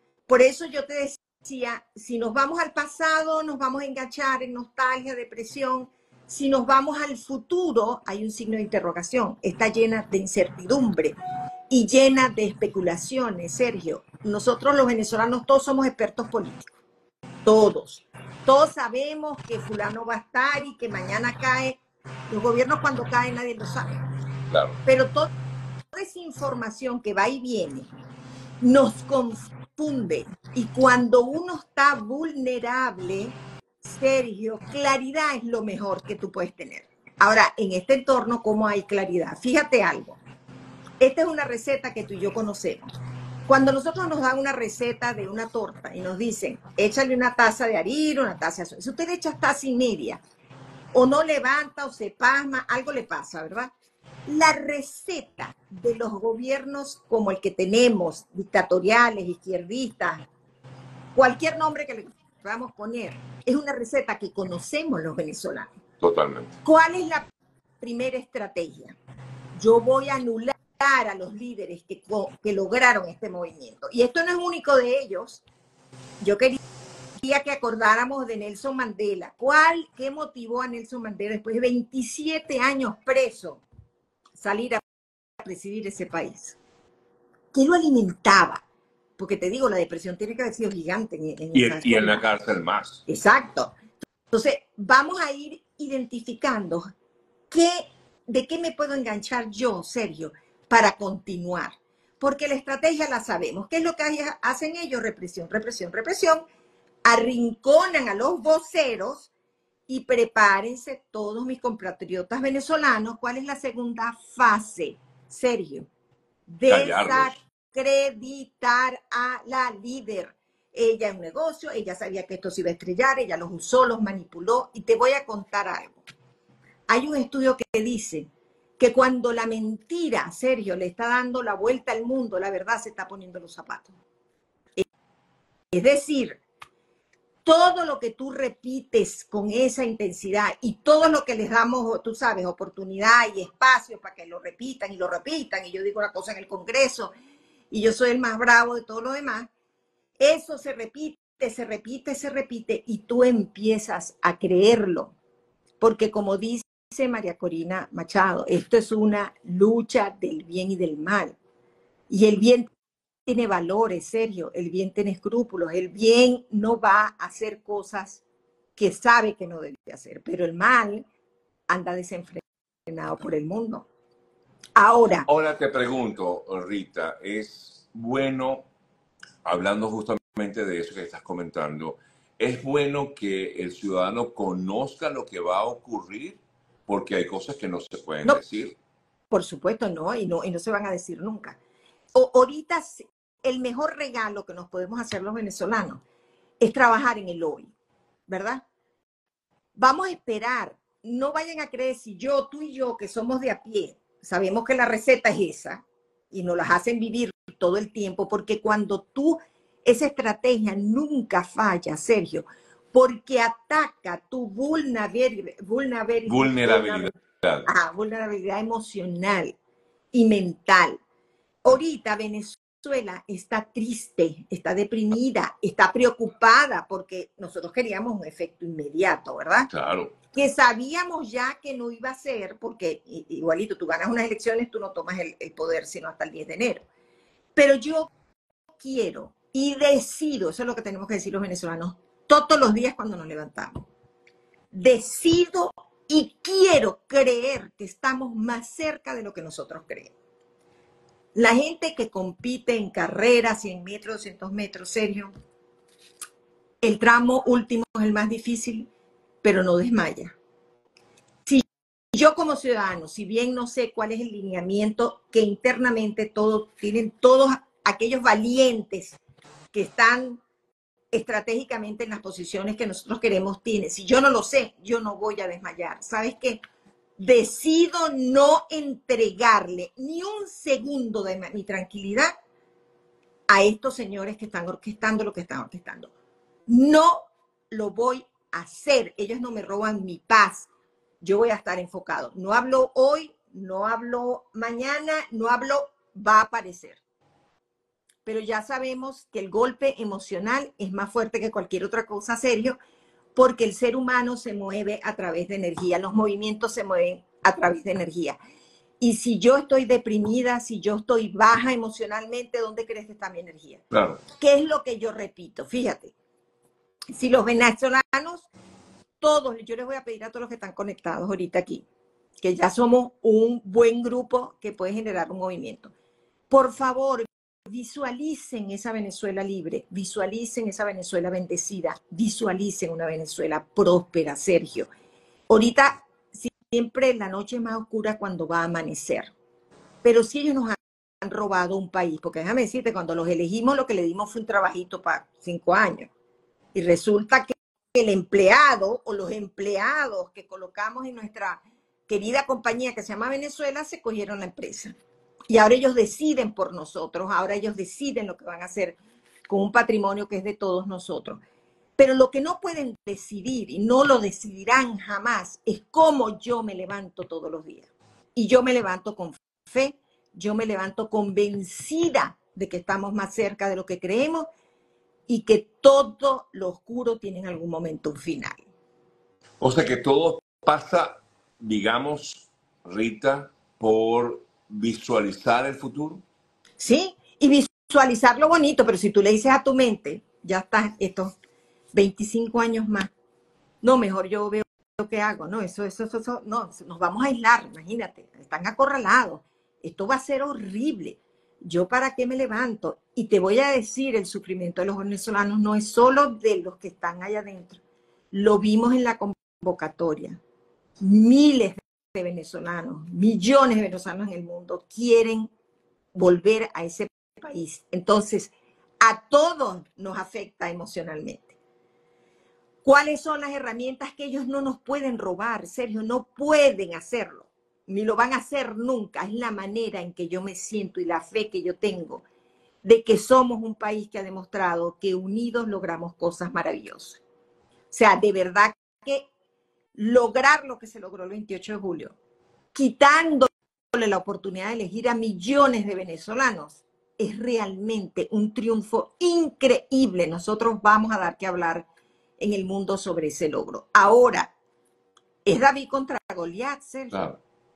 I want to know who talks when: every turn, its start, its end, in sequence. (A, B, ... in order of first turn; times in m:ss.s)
0:00.3-0:11.2 A
0:11.7-0:16.8 A
0:17.4-0:24.0 A
0:24.5-0:24.8 B
0:24.9-0:25.3 A
0:25.9-0:27.9 A
0:28.6-0:40.2 A
0:41.0-0:42.9 A
0:43.5-0:50.2 A
0:50.9-0:53.7 A
0:54.3-1:00.3 A
1:01.2-1:05.7 A
1:06.0-1:06.6 B
1:06.6-1:07.3 A
1:07.8-1:09.0 A
1:09.6-1:15.4 A
1:16.2-1:16.6 A
1:17.2-1:23.6 A
1:24.4-1:24.8 A
1:25.4-1:26.6 A
1:27.5-1:28.6 A
1:29.2-1:32.2 A
1:31.5-1:33.0 B
1:33.1-1:33.8 A
1:34.3-1:36.8 A
1:37.5-1:46.4 A
1:47.0-1:49.3 A
1:49.9-1:55.9 A
1:56.5-2:06.0 A
1:56.7-1:57.3 B
2:06.9-2:13.9 A
2:15.7-2:16.4 A
2:17.4-2:27.1 A
2:27.7-2:29.5 A
2:30.2-2:35.1 A
2:35.8-2:41.4 A
2:42.1-2:42.7 A
2:43.3-2:48.2 A
2:48.8-2:51.1 A
2:51.7-2:53.9 A
2:54.8-2:55.3 A
2:55.3-2:58.7 B
2:59.4-3:08.8 B
3:09.3-3:11.6 A
3:12.1-3:16.0 A
3:16.6-3:17.7 A
3:18.3-3:18.6 A
3:19.8-3:37.1 A
3:36.3-3:37.7 B
3:37.7-3:39.6 A
3:40.1-3:41.0 A
3:41.6-3:49.7 A
3:49.7-3:50.2 B
3:50.3-3:56.8 A
3:57.6-3:58.1 A
3:58.8-4:03.9 A
4:04.7-4:10.1 A
4:11.4-4:15.3 A
4:16.8-4:18.9 A
4:19.4-4:20.4 A
4:21.5-4:29.2 A
4:29.7-4:30.4 A
4:31.1-4:36.6 A
4:37.2-4:42.3 A
4:43.5-4:46.1 A
4:46.7-4:50.7 A
4:51.2-4:57.0 A
4:58.2-5:02.8 A
5:03.4-5:08.4 A
5:09.0-5:13.8 A
5:13.9-5:14.2 B
5:14.4-5:16.1 A
5:17.1-5:18.5 A
5:19.2-5:21.8 A
5:22.4-5:25.9 A
5:26.5-5:34.9 A
5:35.5-5:39.3 A
5:40.0-5:46.1 A
5:46.7-5:55.0 A
5:55.5-6:01.4 A
6:02.0-6:14.5 A
6:15.3-6:18.6 A
6:19.6-6:26.2 B
6:26.8-6:31.3 A
6:31.9-6:33.1 A
6:33.8-6:47.8 A
6:48.3-6:50.4 A
6:51.0-6:55.5 A
6:56.2-7:01.6 A
7:02.8-7:12.2 A
7:12.8-7:17.2 A
7:17.9-7:19.3 A
7:20.0-7:22.2 A
7:22.7-7:31.9 A
7:32.4-7:34.5 A
7:35.4-7:37.2 A
7:37.1-7:37.4 B